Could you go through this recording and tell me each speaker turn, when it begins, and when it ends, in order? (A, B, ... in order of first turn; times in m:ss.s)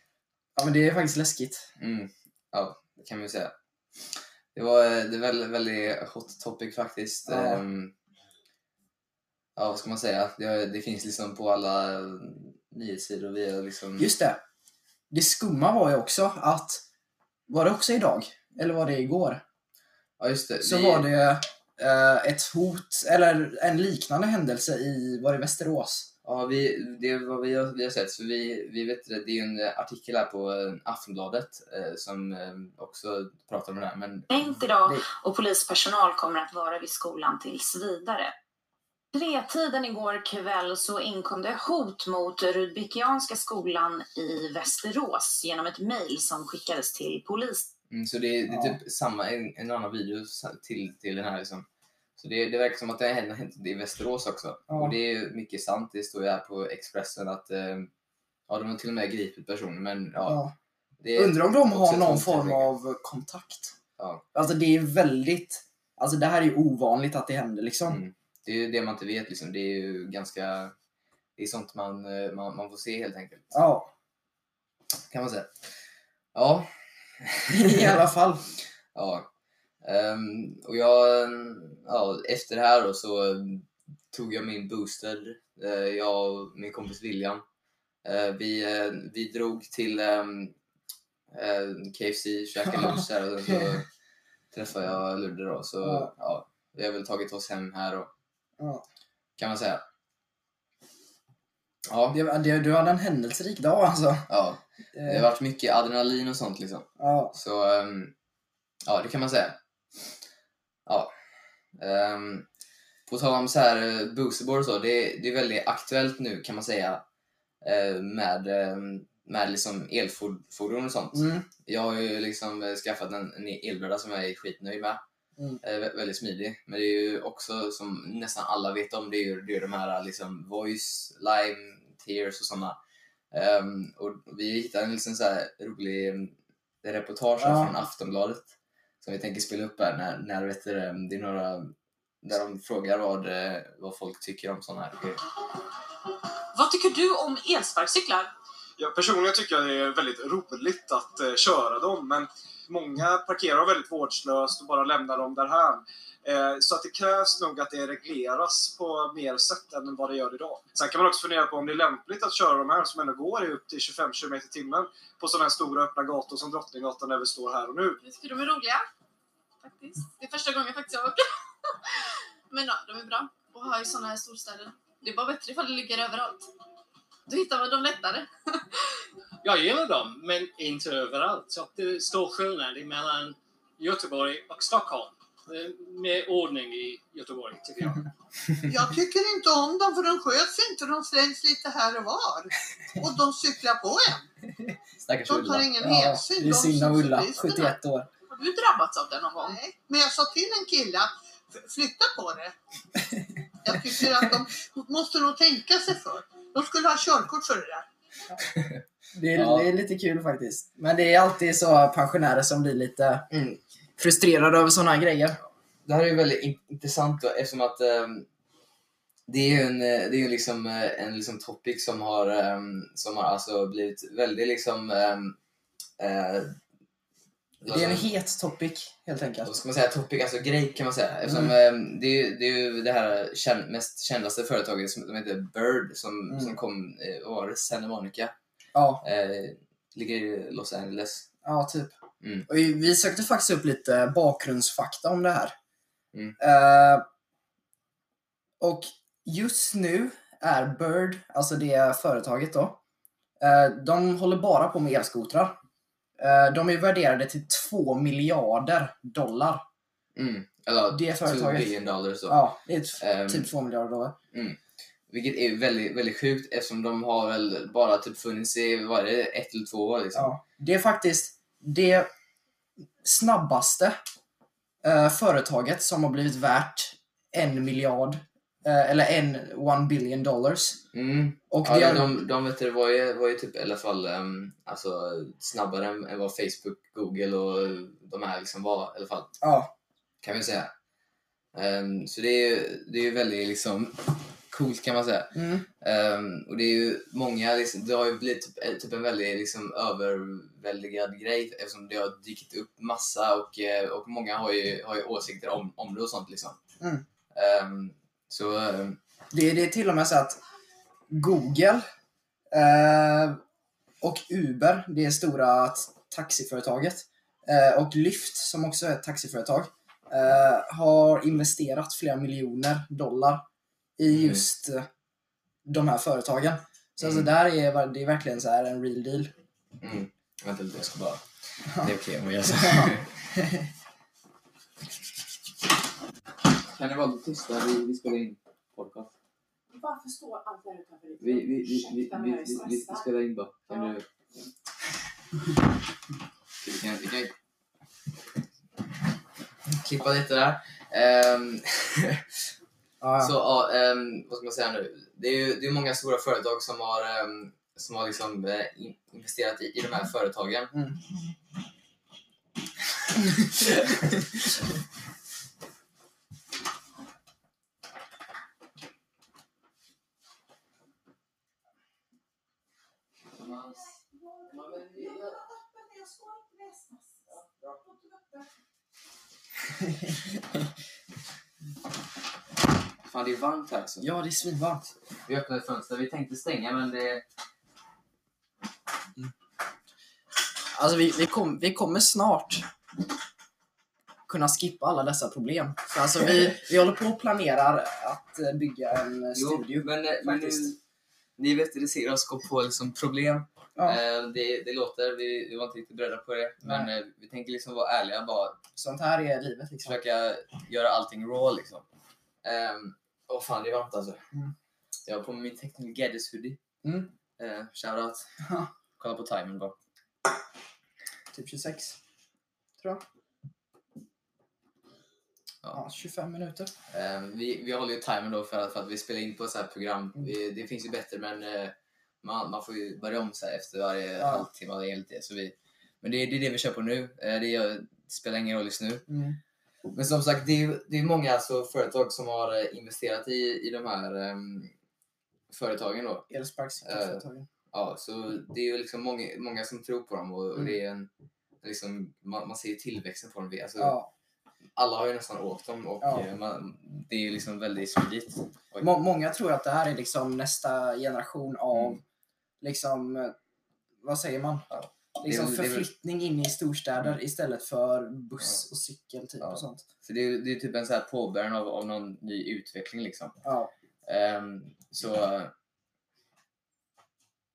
0:00.6-0:01.7 A
0:01.8-0:03.5 B
0:04.5-0:07.9 B
0:07.3-0:07.6 A
0:09.6-0:14.1 B
0:14.0-0:14.4 A
0:15.1-0:16.8 A
0:17.5-0:19.4 A
0:20.2-0:21.1 B
0:20.6-0:26.1 A
0:26.2-0:34.3 B
0:34.3-0:38.3 C
0:39.1-0:47.7 C
0:47.9-0:51.6 B
0:48.5-0:48.8 A
0:52.2-0:57.9 B
0:54.7-0:54.9 A
0:58.5-1:00.4 B
1:00.2-1:00.5 A
1:01.0-1:02.7 B
1:01.1-1:03.7 A
1:04.0-1:04.2 B
1:04.3-1:08.0 A
1:07.9-1:10.7 B
1:11.4-1:13.5 B
1:13.5-1:13.9 A
1:15.1-1:15.6 B
1:16.3-1:18.0 B
1:17.5-1:18.4 A
1:18.9-1:19.3 B
1:19.8-1:27.4 B
1:28.0-1:30.5 B
1:31.3-1:33.8 B
1:34.5-1:38.1 B
1:35.8-1:36.1 A
1:38.6-1:38.8 A
1:39.4-1:39.8 B
1:41.9-1:42.2 B
1:42.1-1:44.3 A
1:44.3-1:48.1 B
1:44.9-1:45.3 A
1:47.0-1:47.3 A
1:48.8-1:49.6 B
1:50.8-1:51.1 B
1:51.8-1:52.5 B
1:53.1-1:57.0 B
1:57.6-2:05.0 B
2:01.1-2:01.4 A
2:05.6-2:12.8 B
2:13.3-2:25.2 B
2:17.4-2:17.7 A
2:26.5-2:28.3 C
2:28.8-2:48.0 D
2:48.0-2:48.8 E
2:49.6-2:51.2 E
2:51.9-2:56.5 E
2:57.3-2:58.8 E
2:59.4-3:08.1 F
3:08.6-3:14.3 G
3:15.0-3:15.7 B
3:15.3-3:17.7 G
3:15.8-3:18.1 A
3:18.3-3:19.6 E
3:19.4-3:22.5 G
3:23.6-3:27.9 G
3:28.5-3:28.8 B
3:29.1-3:33.3 A
3:29.3-3:29.7 B
3:33.3-3:33.6 B
3:34.0-3:35.4 A
3:35.8-3:38.3 B
3:39.3-3:45.4 B
3:46.0-3:46.6 B
3:47.6-3:48.1 B
3:47.7-3:49.6 A
3:49.4-3:58.3 B
3:51.3-3:51.5 A
3:56.3-3:56.6 A
3:58.7-3:59.0 A
3:59.0-4:01.3 B
4:01.4-4:01.9 A
4:02.2-4:02.4 B
4:02.4-4:05.5 A
4:06.4-4:07.0 A
4:08.6-4:12.8 A
4:13.4-4:15.6 A
4:16.2-4:19.6 A
4:20.1-4:22.5 B
4:20.9-4:21.7 A
4:22.3-4:24.2 A
4:23.0-4:23.5 B
4:24.3-4:30.3 B
4:30.1-4:32.1 A
4:33.0-4:34.0 A
4:34.8-4:40.8 A
4:40.9-4:49.3 B
4:41.5-4:42.1 A
4:49.4-4:49.7 A
4:50.2-4:50.7 B
4:51.5-5:06.6 B
4:55.3-4:55.7 A
5:06.8-5:07.0 A
5:07.3-5:09.0 B
5:09.3-5:10.4 A
5:11.1-5:11.8 A
5:12.5-5:13.4 A
5:14.0-5:23.4 A
5:24.0-5:24.9 A
5:24.1-5:24.4 B
5:25.6-5:29.3 A
5:27.0-5:27.3 B
5:29.8-5:31.2 B
5:31.7-5:33.2 B
5:32.6-5:32.9 A
5:36.6-5:39.1 B
5:39.9-5:40.4 E
5:41.2-5:44.0 B
5:46.6-5:47.3 B
5:49.7-5:52.4 B
5:53.0-5:53.3 A
5:53.2-6:00.7 B
6:03.1-6:04.3 B
6:13.4-6:14.0 B
6:14.5-6:15.4 B
6:17.3-6:17.8 B
6:23.0-6:24.1 B
6:24.0-6:24.9 A
6:25.2-6:27.2 B
6:30.7-6:32.6 A
6:34.3-6:40.7 A
6:39.3-6:40.8 B
6:41.4-6:48.6 B
6:46.6-6:46.9 A
6:48.8-6:50.0 A
6:49.8-6:51.8 B
6:52.4-6:54.2 B
6:55.0-6:56.6 B
6:56.8-6:57.1 A
6:57.4-6:58.3 B
6:58.4-6:58.7 A
6:59.0-6:59.8 B
7:01.3-7:02.0 A
7:05.7-7:06.7 A
7:06.9-7:19.0 B
7:14.2-7:14.5 A
7:19.1-7:19.4 A
7:19.9-7:24.7 B
7:25.5-7:26.3 B
7:26.3-7:27.5 A
7:26.8-7:31.1 B
7:31.6-7:34.0 B
7:33.8-7:34.1 A
7:34.8-7:38.9 B
7:36.0-7:36.2 A
7:38.8-7:42.0 A
7:41.7-7:42.0 B
7:42.6-7:43.3 A
7:44.0-7:44.6 A
7:44.7-7:45.9 B
7:45.2-7:49.8 A
7:49.4-7:53.4 B
7:53.4-7:53.7 A
7:54.0-7:55.5 B